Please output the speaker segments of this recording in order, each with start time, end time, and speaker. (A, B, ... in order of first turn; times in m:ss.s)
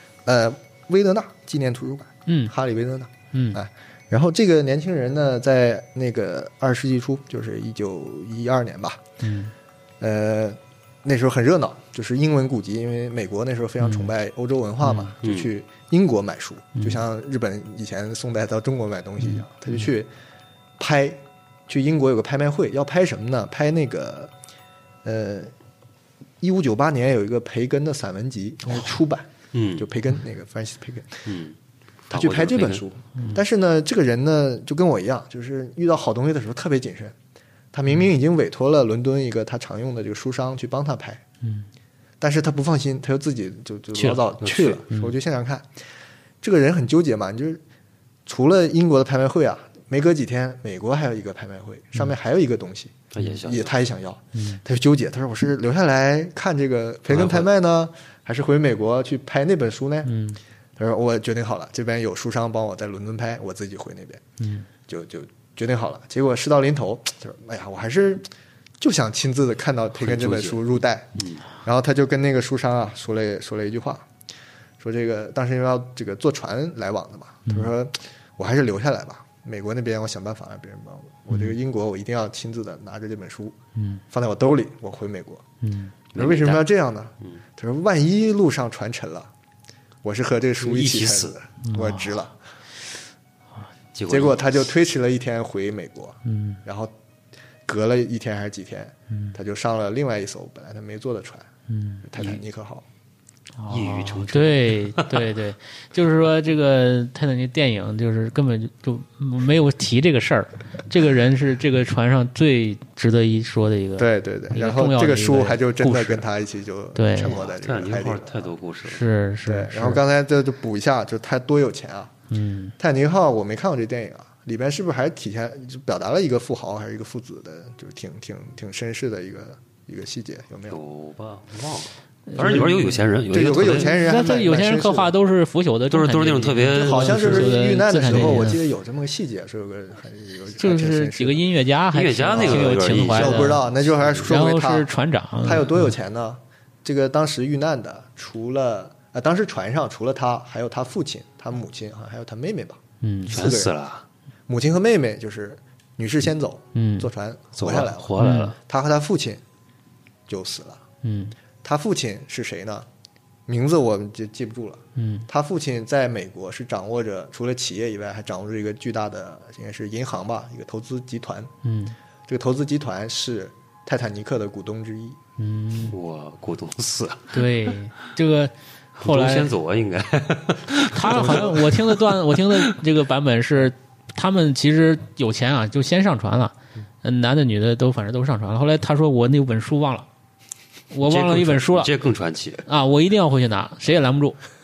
0:00.2-0:09.0 A
0:02.3-0:02.5 B
0:03.3-0:03.6 B
0:09.2-0:09.5 B
0:10.0-0:20.1 A
0:13.8-0:14.1 B
0:14.8-0:15.1 B
0:15.2-0:15.5 C
0:20.8-0:24.3 A
0:25.0-0:25.5 A
0:26.4-0:31.3 A
0:29.5-0:29.9 C
0:31.3-0:31.6 C
0:32.1-0:32.8 C
0:32.1-0:37.2 A
0:37.7-0:41.2 A
0:41.4-0:41.7 B
0:42.2-0:45.7 A
0:43.9-0:44.3 B
0:44.4-0:44.8 C
0:46.4-0:47.6 A
0:48.3-1:00.1 A
0:53.1-0:53.7 C
0:54.4-0:54.6 B
0:57.1-0:57.5 C
1:00.1-1:00.4 B
1:00.8-1:04.2 A
1:04.4-1:04.7 B
1:04.9-1:08.2 A
1:08.8-1:14.1 A
1:10.0-1:10.6 C
1:14.8-1:23.6 A
1:23.8-1:24.0 B
1:24.1-1:25.4 A
1:25.6-1:25.9 B
1:26.1-1:26.6 C
1:26.1-1:29.3 A
1:30.0-1:32.4 A
1:30.6-1:31.4 C
1:31.6-1:32.2 B
1:33.9-1:34.5 C
1:34.1-1:36.9 A
1:36.2-1:36.6 B
1:37.6-1:41.5 A
1:39.1-1:39.4 B
1:41.7-1:42.4 B
1:42.0-1:42.8 A
1:43.6-1:56.3 B
1:43.7-1:45.3 C
1:54.0-1:58.5 A
1:56.9-1:57.4 B
1:57.2-1:59.0 C
1:58.9-2:00.0 B
1:59.4-2:02.1 A
2:02.3-2:02.8 B
2:02.8-2:10.8 A
2:10.7-2:14.0 C
2:12.3-2:13.0 B
2:12.4-2:15.1 A
2:13.6-2:18.6 B
2:15.9-2:17.6 C
2:16.7-2:21.5 A
2:20.6-2:23.6 B
2:21.9-2:24.3 C
2:22.4-2:24.9 A
2:24.2-2:25.9 B
2:25.4-2:33.7 A
2:33.0-2:33.3 B
2:33.3-2:34.0 C
2:34.5-2:39.4 A
2:36.7-2:37.1 B
2:37.6-2:38.6 C
2:38.2-2:38.5 B
2:40.3-2:40.8 A
2:41.0-2:41.4 B
2:41.6-2:42.9 A
2:43.5-2:51.5 A
2:45.0-2:45.3 B
2:51.6-2:52.0 B
2:52.3-2:55.2 A
2:55.4-2:55.9 B
2:55.9-2:57.7 C
2:57.3-2:59.5 B
2:59.0-3:02.6 C
3:00.9-3:10.1 B
3:01.2-3:01.5 A
3:10.9-3:11.9 B
3:11.0-3:12.6 C
3:12.6-3:14.4 B